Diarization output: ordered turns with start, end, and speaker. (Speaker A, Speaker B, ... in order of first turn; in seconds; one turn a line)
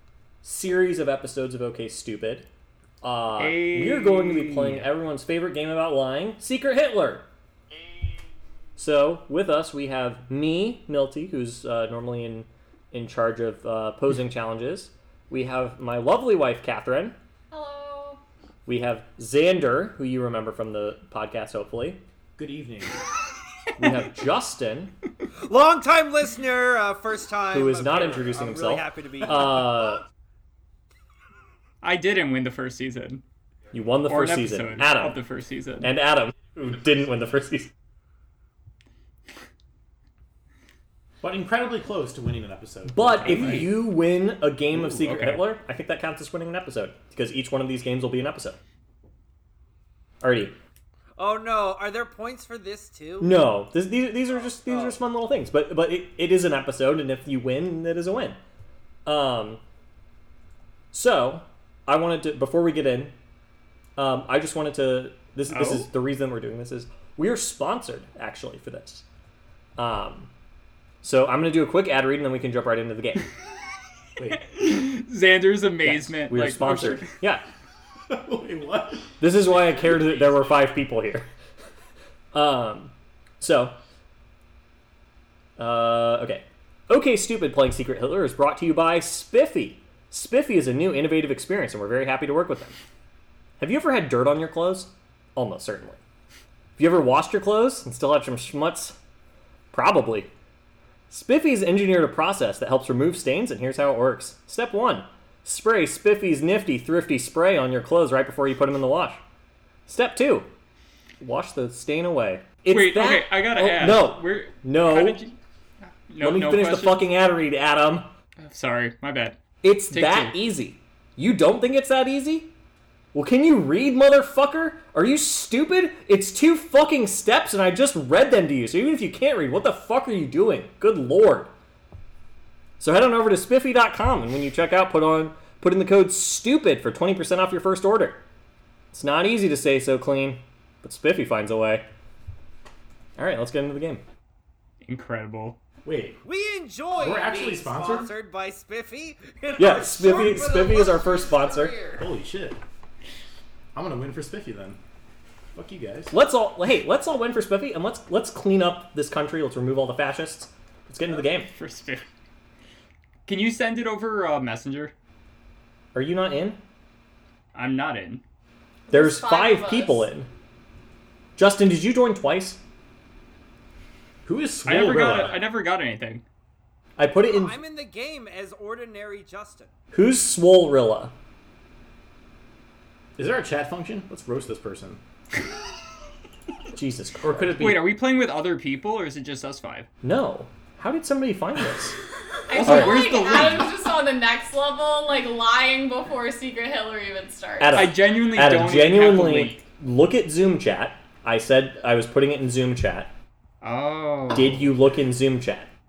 Speaker A: 0.4-2.5
Speaker A: 3.0-7.3
Speaker B: 3.4-4.9
Speaker A: 8.8-17.1
Speaker C: 17.5-18.2
Speaker A: 18.6-22.0
Speaker D: 22.4-23.0
Speaker A: 23.8-24.9
Speaker E: 25.4-29.6
Speaker A: 27.5-30.0
Speaker B: 31.8-33.2
Speaker A: 33.7-35.2
Speaker B: 34.0-35.9
Speaker A: 35.8-37.7
Speaker D: 41.2-43.7
Speaker A: 42.9-48.6
Speaker B: 43.2-43.7
Speaker B: 44.8-45.4
Speaker A: 50.2-50.5
Speaker E: 51.2-53.4
Speaker A: 53.2-58.4
Speaker E: 54.5-55.0
Speaker A: 59.0-59.6
Speaker A: 60.9-63.1
Speaker A: 64.0-69.0
Speaker B: 65.5-65.8
Speaker A: 69.8-70.3
Speaker A: 71.0-73.3
Speaker B: 74.4-77.1
Speaker A: 75.8-77.4
Speaker D: 78.1-79.2
Speaker A: 79.2-81.3
Speaker A: 82.3-83.8
Speaker A: 85.6-92.8
Speaker A: 93.6-96.0
Speaker A: 96.8-99.0
Speaker A: 99.7-100.3
Speaker A: 101.1-109.2
Speaker A: 109.9-110.5
Speaker A: 111.2-115.2
Speaker B: 112.7-117.0
Speaker A: 116.2-118.1
Speaker B: 118.4-120.3
Speaker A: 119.6-122.5
Speaker A: 123.1-131.5
Speaker A: 132.8-138.2
Speaker A: 138.9-141.9
Speaker A: 143.2-144.0
Speaker B: 144.8-145.6
Speaker D: 145.8-146.2
Speaker E: 146.2-152.1
Speaker D: 146.9-148.1
Speaker A: 149.6-151.8
Speaker D: 152.0-152.6
Speaker D: 153.7-154.8
Speaker D: 155.5-156.1
Speaker A: 156.1-161.5
Speaker B: 161.3-162.1
Speaker B: 163.2-164.9
Speaker A: 165.9-166.6
Speaker B: 167.5-168.2
Speaker C: 168.9-170.1
Speaker A: 168.9-170.3
Speaker A: 171.4-172.6
Speaker D: 174.2-175.5
Speaker B: 174.6-176.2
Speaker A: 177.0-177.6
Speaker E: 177.3-179.7
Speaker A: 179.9-181.1
Speaker D: 183.2-185.0
Speaker A: 186.7-187.6
Speaker D: 187.2-187.8
Speaker B: 187.6-189.9
Speaker A: 190.0-192.0
Speaker C: 192.5-197.9
Speaker B: 192.5-193.7
Speaker A: 192.6-193.5
Speaker A: 197.6-203.1
Speaker B: 197.7-199.6
Speaker B: 203.6-204.7
Speaker A: 204.3-205.7